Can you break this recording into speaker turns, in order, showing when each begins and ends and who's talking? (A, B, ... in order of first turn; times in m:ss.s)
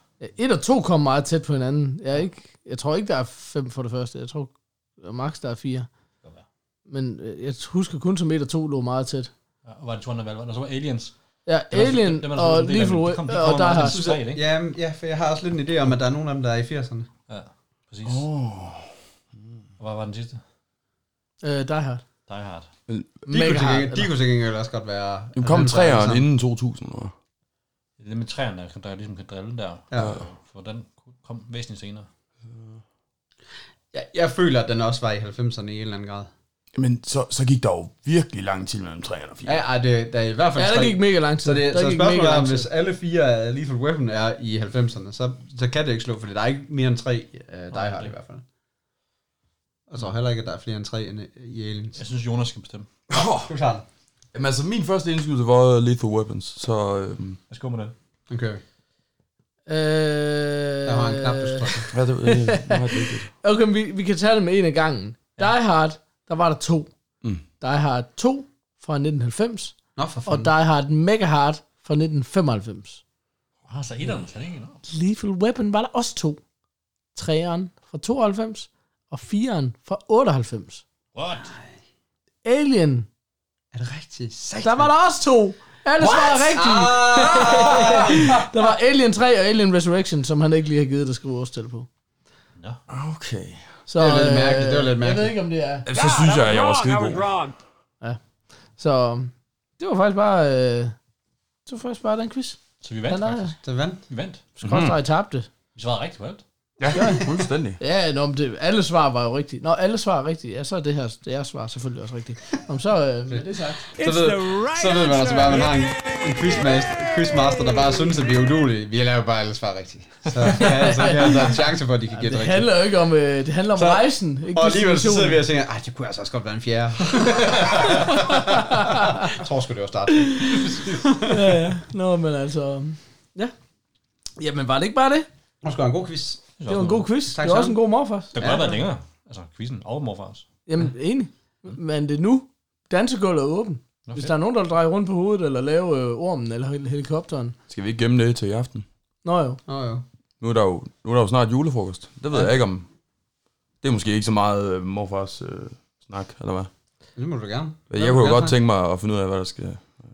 0:00.2-0:05.9 A
0:06.9-0:09.3 A
0:09.7-0:11.1 B
0:11.5-0:14.0 A
0:11.7-0:14.4 B
0:13.8-0:17.1 C
0:17.3-0:18.2 B
0:18.0-0:18.9 D
0:19.8-0:20.4 B
0:21.4-0:22.0 A
0:22.3-0:22.7 B
0:22.9-0:23.2 D
0:23.3-0:26.2 C
0:23.3-0:24.1 A
0:25.4-0:27.1 D
0:28.0-0:32.1 B
0:30.0-0:30.2 D
0:32.5-0:32.8 D
0:33.9-0:36.3 C
0:36.8-0:39.6 D
0:39.4-0:48.4 C
0:40.6-0:42.7 A
0:47.7-0:48.1 B
0:49.9-0:52.0 C
0:52.0-0:52.9 B
0:53.1-0:53.5 D
0:53.5-0:53.8 C
0:54.3-0:57.4 D
0:57.5-0:57.9 B
0:58.3-0:58.6 C
0:59.7-1:06.9 A
1:00.8-1:01.9 C
1:01.9-1:03.3 D
1:07.6-1:13.0 A
1:10.0-1:10.5 C
1:13.7-1:14.8 B
1:14.9-1:16.4 A
1:17.1-1:20.8 A
1:21.2-1:21.5 B
1:22.4-1:23.1 A
1:23.7-1:24.9 C
1:24.6-1:31.9 A
1:26.0-1:28.4 C
1:32.9-1:33.6 D
1:33.9-1:35.9 A
1:34.0-1:35.4 C
1:35.9-1:37.3 D
1:35.9-1:37.6 E
1:38.8-1:41.0 A
1:41.7-1:43.5 A
1:42.8-1:44.5 B
1:43.6-1:44.0 C
1:44.6-1:45.5 A
1:44.6-1:45.0 D
1:45.8-1:46.4 B
1:46.8-1:47.8 D
1:46.9-1:54.0 A
1:53.3-2:02.7 C
1:54.0-1:56.7 E
1:57.6-1:57.9 E
2:00.5-2:05.4 A
2:03.8-2:11.4 C
2:08.1-2:09.3 A
2:11.3-2:13.5 A
2:14.4-2:15.3 A
2:15.6-2:16.5 C
2:16.6-2:17.1 B
2:16.7-2:18.3 A
2:17.3-2:17.8 C
2:18.3-2:20.5 B
2:18.4-2:18.8 C
2:20.7-2:27.6 A
2:27.7-2:28.8 D
2:29.2-2:29.6 A
2:29.7-2:30.0 C
2:30.4-2:32.9 D
2:33.8-2:36.7 D
2:37.2-2:38.6 C
2:37.9-2:40.0 D